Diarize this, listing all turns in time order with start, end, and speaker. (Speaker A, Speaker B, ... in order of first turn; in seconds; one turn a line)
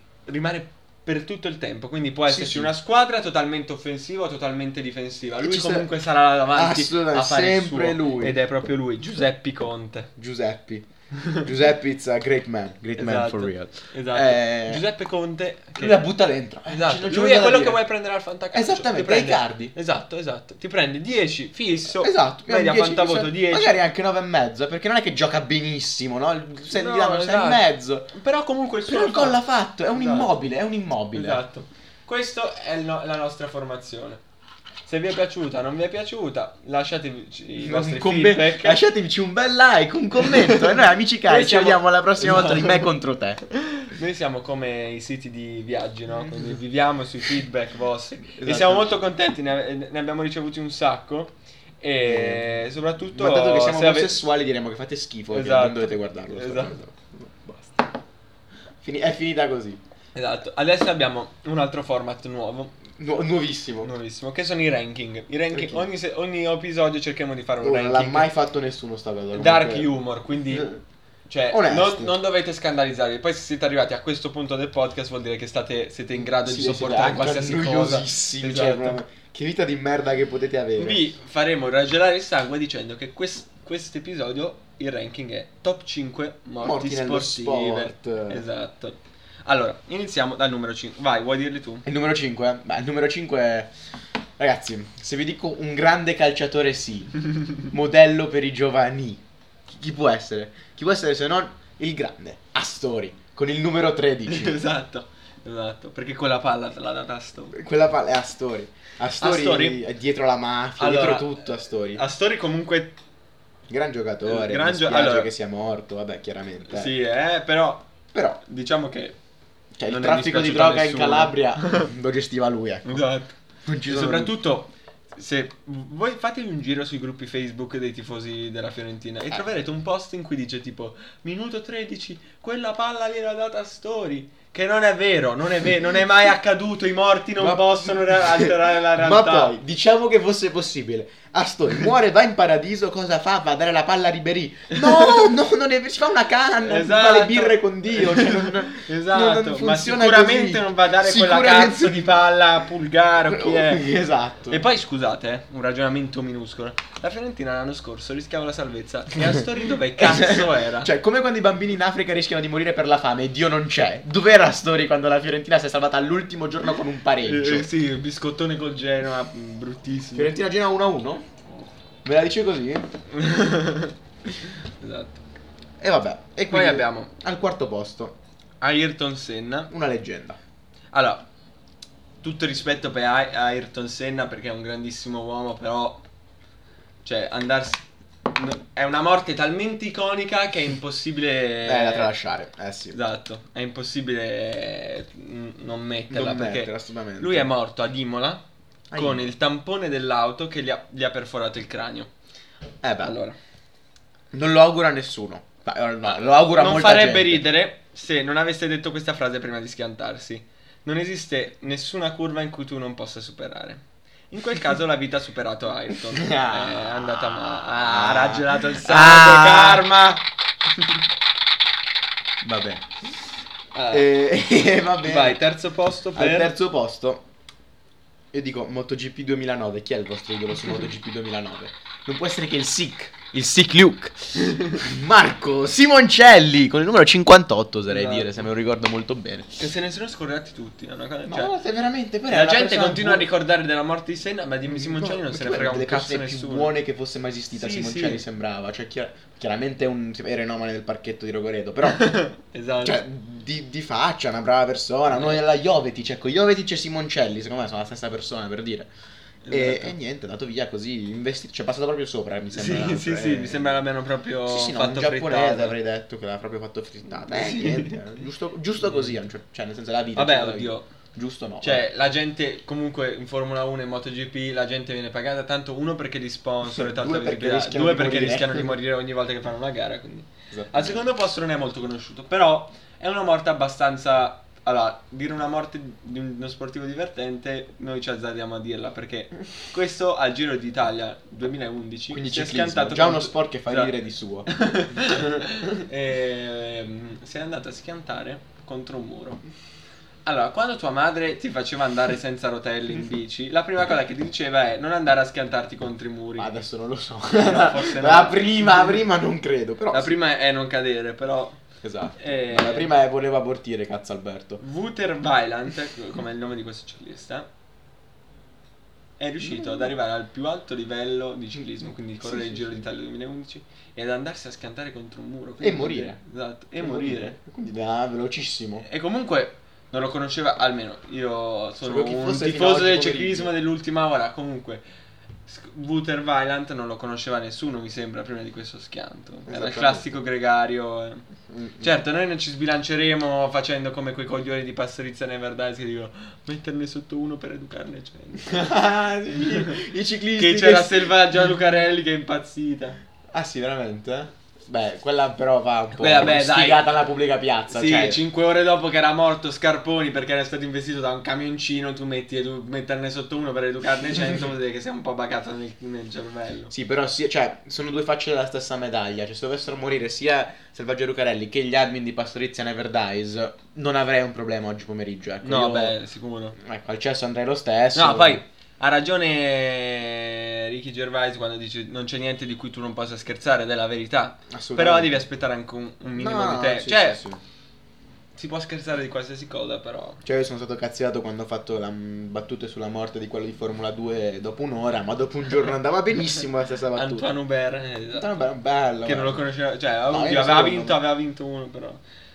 Speaker A: 0.3-10.1
Speaker B: 2.3-2.7
Speaker B: 5.4-5.9
Speaker B: 6.5-8.4
Speaker B: 10.2-14.8
Speaker A: 11.2-11.4
Speaker A: 13.0-16.0
Speaker B: 15.8-17.8
Speaker A: 16.6-23.8
Speaker B: 18.5-19.7
Speaker B: 21.9-28.1
Speaker A: 26.7-29.4
Speaker B: 28.9-31.4
Speaker A: 29.9-30.3
Speaker A: 31.1-34.2
Speaker A: 34.9-38.8
Speaker B: 37.6-43.4
Speaker A: 40.2-40.6
Speaker A: 41.2-42.9
Speaker A: 43.5-54.2
Speaker B: 46.1-46.5
Speaker B: 48.3-49.0
Speaker B: 52.0-52.5
Speaker B: 53.1-57.9
Speaker A: 55.3-56.8
Speaker B: 58.8-59.8
Speaker A: 60.1-62.7
Speaker B: 63.0-63.9
Speaker A: 63.8-68.3
Speaker B: 65.5-65.9
Speaker B: 67.6-70.0
Speaker A: 69.3-70.7
Speaker B: 70.5-70.8
Speaker A: 71.3-79.0
Speaker B: 71.5-72.2
Speaker B: 76.2-81.0
Speaker A: 80.8-91.8
Speaker B: 86.6-88.4
Speaker B: 91.8-93.7
Speaker B: 94.4-104.6
Speaker A: 104.3-107.6
Speaker B: 107.5-112.0
Speaker A: 109.2-109.8
Speaker A: 110.8-111.4
Speaker A: 111.9-113.0
Speaker B: 113.7-116.9
Speaker A: 114.2-115.3
Speaker A: 116.7-117.9
Speaker B: 118.1-118.4
Speaker A: 118.4-119.2
Speaker B: 119.8-123.1
Speaker A: 119.9-121.9
Speaker A: 122.8-123.3
Speaker B: 123.6-124.3
Speaker A: 123.8-139.6
Speaker B: 137.4-152.2
Speaker A: 144.8-145.3
Speaker A: 146.6-153.9
Speaker B: 153.3-154.6
Speaker A: 154.5-160.9
Speaker B: 160.0-167.7
Speaker A: 167.2-170.3
Speaker B: 170.1-171.2
Speaker B: 172.0-172.9
Speaker A: 173.1-173.9
Speaker A: 174.8-175.2
Speaker B: 175.8-178.2
Speaker A: 176.5-177.1
Speaker A: 178.6-179.7
Speaker B: 179.7-180.4
Speaker A: 180.9-181.3
Speaker A: 182.2-186.0
Speaker A: 187.0-192.1
Speaker B: 191.6-193.0
Speaker A: 192.9-202.1
Speaker B: 196.1-197.5
Speaker B: 198.9-199.3
Speaker B: 202.8-203.2
Speaker A: 203.0-203.4
Speaker B: 204.3-207.4
Speaker A: 206.6-220.2
Speaker B: 216.1-219.9
Speaker B: 222.4-222.9
Speaker A: 223.7-224.1
Speaker B: 223.9-225.4
Speaker A: 225.0-226.5
Speaker B: 226.1-227.2
Speaker B: 228.3-239.6
Speaker A: 234.5-234.8
Speaker A: 237.9-238.4
Speaker A: 239.6-241.6
Speaker B: 241.3-243.3
Speaker A: 242.3-246.7
Speaker B: 244.7-252.1
Speaker A: 247.5-248.2
Speaker A: 251.8-253.0
Speaker B: 252.8-258.9
Speaker A: 259.4-259.9
Speaker B: 259.5-263.8
Speaker A: 262.5-265.8
Speaker B: 264.4-271.9
Speaker A: 267.3-268.0
Speaker A: 268.8-269.1
Speaker A: 270.1-270.9
Speaker A: 271.6-293.9
Speaker B: 276.6-278.7
Speaker B: 280.5-281.0
Speaker B: 292.1-294.5
Speaker A: 294.5-299.4
Speaker A: 300.2-306.5
Speaker B: 306.4-310.1
Speaker A: 307.4-309.0
Speaker A: 309.9-311.6
Speaker B: 311.8-314.6
Speaker A: 312.2-312.9
Speaker A: 314.6-317.5
Speaker A: 319.2-327.4
Speaker B: 322.2-322.8
Speaker B: 325.6-326.2
Speaker B: 326.8-328.8
Speaker A: 328.8-334.8
Speaker B: 331.8-333.5
Speaker A: 335.4-341.2
Speaker B: 339.5-340.1
Speaker B: 341.5-341.9
Speaker A: 341.8-348.7
Speaker B: 348.4-351.1
Speaker A: 349.5-349.8
Speaker A: 350.3-353.0
Speaker B: 353.3-358.2
Speaker A: 356.0-356.9
Speaker A: 357.7-366.7
Speaker B: 366.7-376.0
Speaker A: 375.4-376.6
Speaker B: 376.6-378.4
Speaker A: 377.9-387.2
Speaker B: 384.5-385.2
Speaker B: 386.2-387.4
Speaker A: 388.3-390.2
Speaker B: 390.2-397.3
Speaker A: 396.9-398.4
Speaker B: 398.1-399.4
Speaker A: 399.0-402.0
Speaker B: 400.1-401.0